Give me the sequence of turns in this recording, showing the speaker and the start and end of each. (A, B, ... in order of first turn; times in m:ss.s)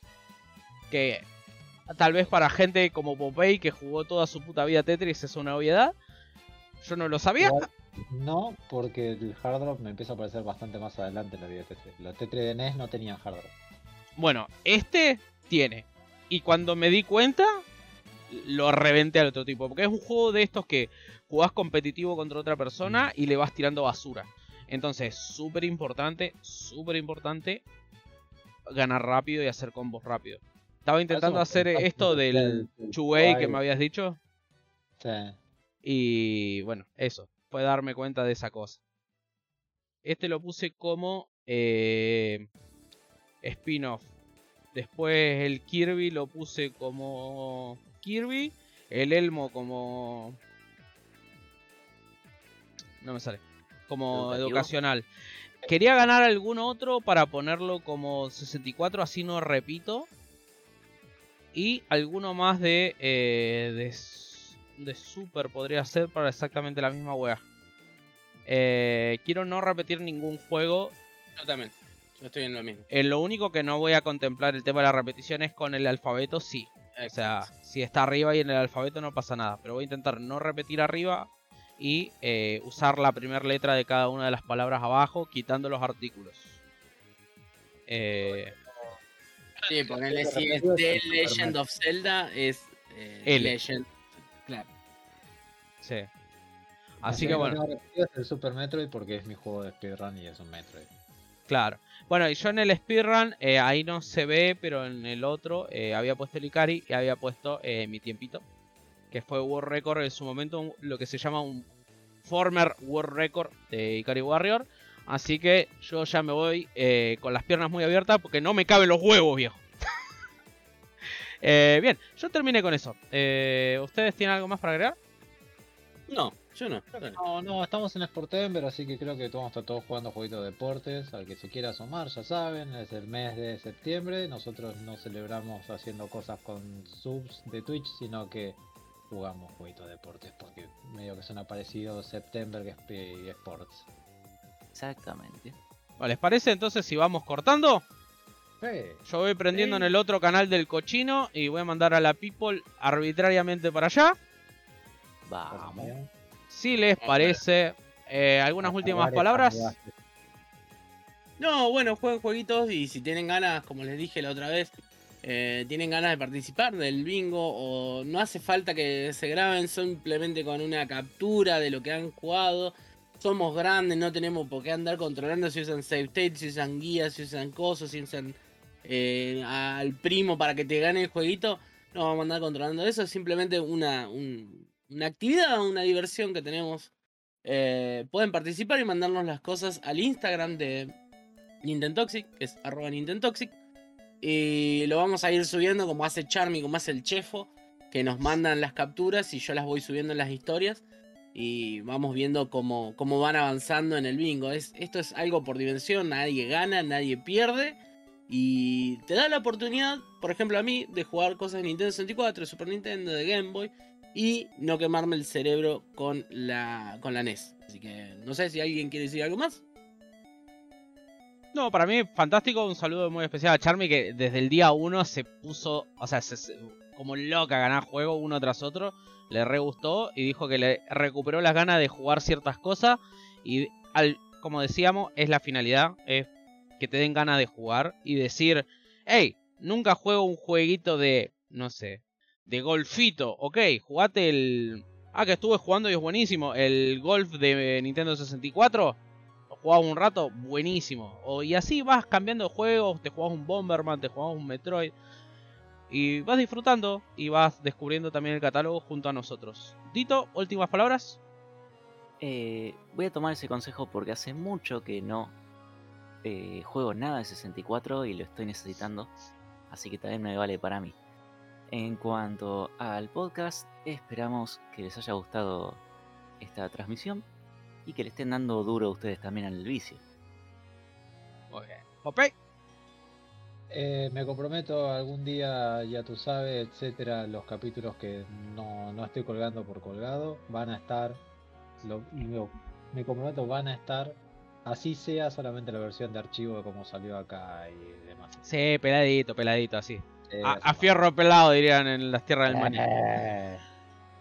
0:00.9-0:01.2 A
0:01.9-0:05.9 A
0:06.8-0:07.7 A
0:07.4-0:13.5 B
0:14.2-0:17.6 A
0:18.3-0:27.6 A
0:22.8-0:23.1 B
0:28.7-0:34.2 A
0:31.1-0:33.6 B
0:35.0-0:35.4 B
0:35.8-0:38.8 A
0:40.0-0:42.5 A
0:43.4-0:44.1 A
0:44.7-0:50.4 A
0:53.0-0:55.1 A
0:54.1-0:54.7 C
0:55.6-1:00.1 A
1:01.5-1:07.4 A
1:08.4-1:10.9 A
1:11.4-1:12.9 D
1:12.9-1:26.5 A
1:27.9-1:28.6 A
1:28.2-1:29.0 B
1:29.7-1:34.7 D
1:29.9-1:31.6 B
1:33.2-1:33.6 A
1:35.8-1:36.1 A
1:37.0-1:37.6 A
1:37.0-1:40.9 B
1:41.5-1:48.4 A
1:49.1-1:51.6 A
1:52.2-1:59.6 A
2:01.4-2:05.0 A
2:06.1-2:07.2 D
2:06.9-2:23.9 B
2:24.7-2:25.6 C
2:26.0-2:27.8 A
2:28.6-2:29.9 B
2:29.1-2:34.2 A
2:35.2-2:35.9 C
2:35.5-2:36.1 B
2:36.5-2:39.7 A
2:37.0-2:37.4 D
2:38.6-2:39.9 B
2:41.4-3:06.9 D
3:07.4-3:11.0 D
3:11.6-3:13.5 D
3:14.2-3:20.8 D
3:21.3-3:27.8 D
3:28.3-3:39.6 D
3:41.5-4:09.0 A
4:09.5-4:14.9 A
4:15.9-4:21.2 A
4:22.2-4:25.3 C
4:26.2-4:29.1 C
4:29.7-4:31.0 C
4:31.7-4:35.8 C
4:36.4-4:37.2 C
4:37.8-4:40.0 C
4:41.5-4:42.3 A
4:43.7-4:51.2 B
4:51.8-4:58.4 B
4:58.4-5:03.3 A
5:00.3-5:01.0 B
5:02.5-5:03.6 B